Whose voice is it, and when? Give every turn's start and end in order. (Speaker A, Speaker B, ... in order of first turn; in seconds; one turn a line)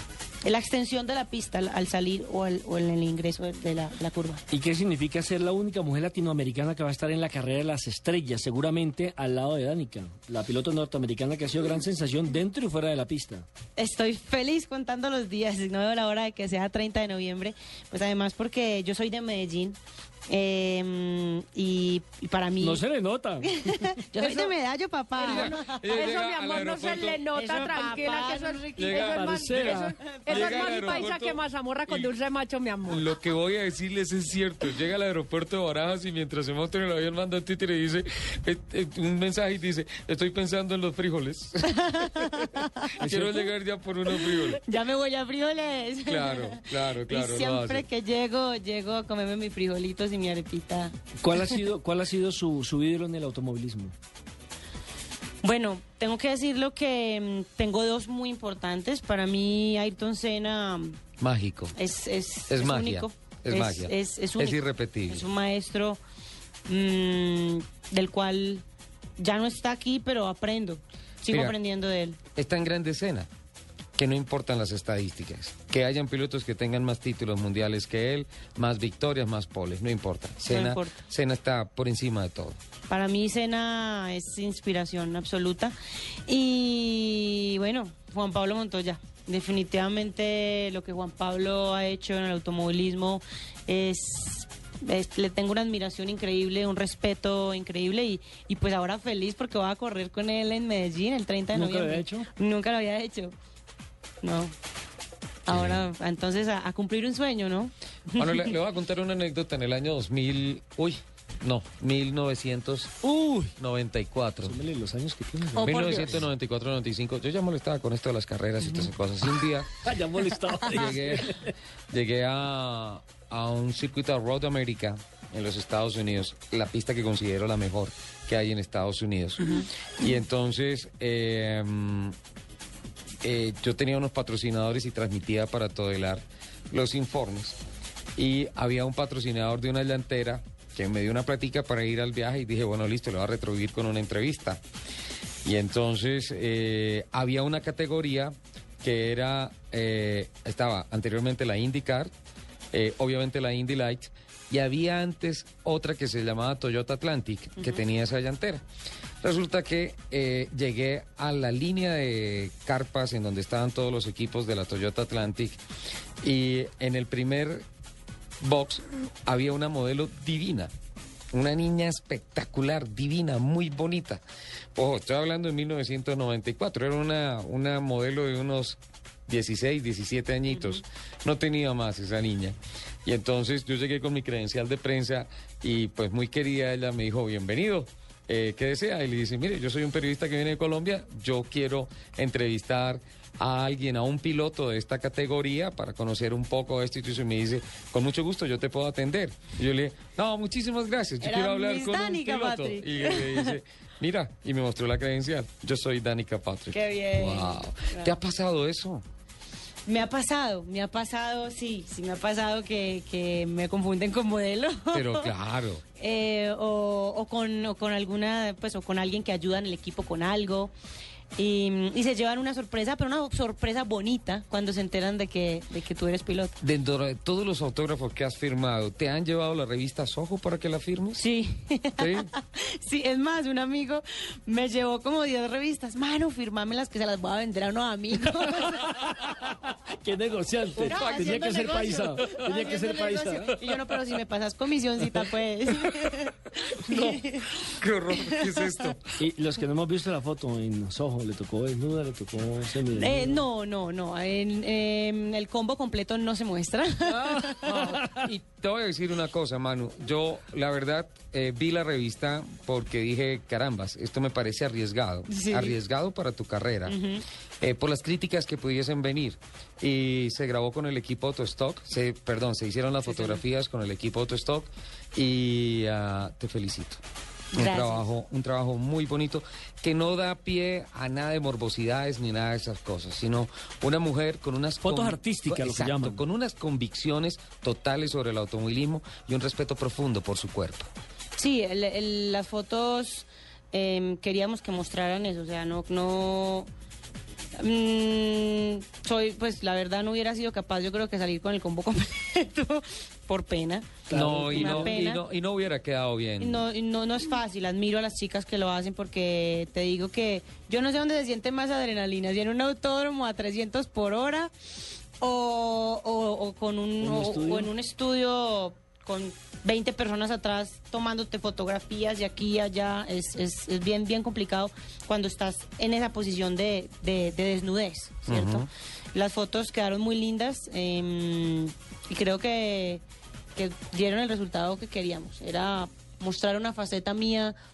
Speaker A: 0.4-4.4
Speaker B: 4.5-13.5
Speaker A: 13.8-22.8
Speaker B: 22.6-24.5
Speaker A: 23.4-25.8
Speaker C: 25.2-27.3
Speaker D: 25.2-33.1
Speaker A: 27.3-30.9
Speaker C: 28.8-32.1
Speaker B: 28.9-30.0
Speaker C: 32.9-42.5
Speaker A: 41.8-42.9
Speaker C: 43.0-44.6
Speaker B: 43.0-43.4
Speaker A: 44.2-50.9
Speaker C: 46.0-47.8
Speaker B: 51.2-53.9
Speaker A: 55.4-61.0
Speaker C: 61.2-61.8
Speaker A: 61.7-66.0
Speaker C: 62.5-65.2
Speaker A: 66.7-68.6
Speaker A: 69.2-72.2
Speaker C: 71.3-71.5
Speaker C: 72.3-73.3
Speaker C: 74.0-82.6
Speaker A: 80.5-81.0
Speaker A: 82.9-85.7
Speaker A: 86.3-103.3
Speaker B: 101.5-102.3
Speaker A: 104.2-104.5
Speaker A: 105.5-108.5
Speaker C: 105.5-105.8
Speaker C: 108.2-114.6
Speaker B: 113.0-113.5
Speaker B: 114.4-116.1
Speaker A: 115.5-116.2
Speaker C: 115.6-119.7
Speaker B: 119.8-121.5
Speaker C: 120.6-121.4
Speaker C: 121.9-132.1
Speaker C: 133.2-137.6
Speaker C: 138.2-144.6
Speaker C: 145.4-152.1
Speaker C: 152.7-158.6
Speaker A: 157.6-157.8
Speaker C: 159.2-165.6
Speaker C: 166.2-167.6
Speaker C: 168.4-170.7
Speaker C: 171.3-174.2
Speaker C: 174.7-209.0
Speaker A: 201.2-203.6
Speaker A: 206.7-208.1
Speaker A: 209.8-215.3
Speaker C: 214.9-215.8
Speaker A: 216.0-220.7
Speaker A: 221.3-226.6
Speaker C: 226.6-231.2
Speaker A: 231.1-238.9
Speaker C: 232.0-232.3
Speaker B: 238.6-243.6
Speaker C: 240.8-242.2
Speaker A: 240.8-247.6
Speaker C: 246.9-249.0
Speaker A: 248.1-248.9
Speaker B: 249.2-253.4
Speaker A: 252.9-257.6
Speaker C: 257.3-266.9
Speaker B: 257.3-258.2
Speaker A: 265.3-265.8
Speaker A: 266.9-267.2
Speaker C: 267.6-277.0
Speaker A: 273.0-273.4
Speaker A: 277.5-278.1
Speaker C: 277.6-290.9
Speaker B: 284.8-286.2
Speaker A: 291.4-296.7
Speaker A: 297.6-305.2
Speaker B: 304.1-305.0
Speaker C: 304.1-306.6
Speaker A: 306.4-314.5
Speaker A: 315.2-333.0
Speaker B: 317.0-317.7
Speaker C: 328.3-328.7
Speaker A: 333.5-337.6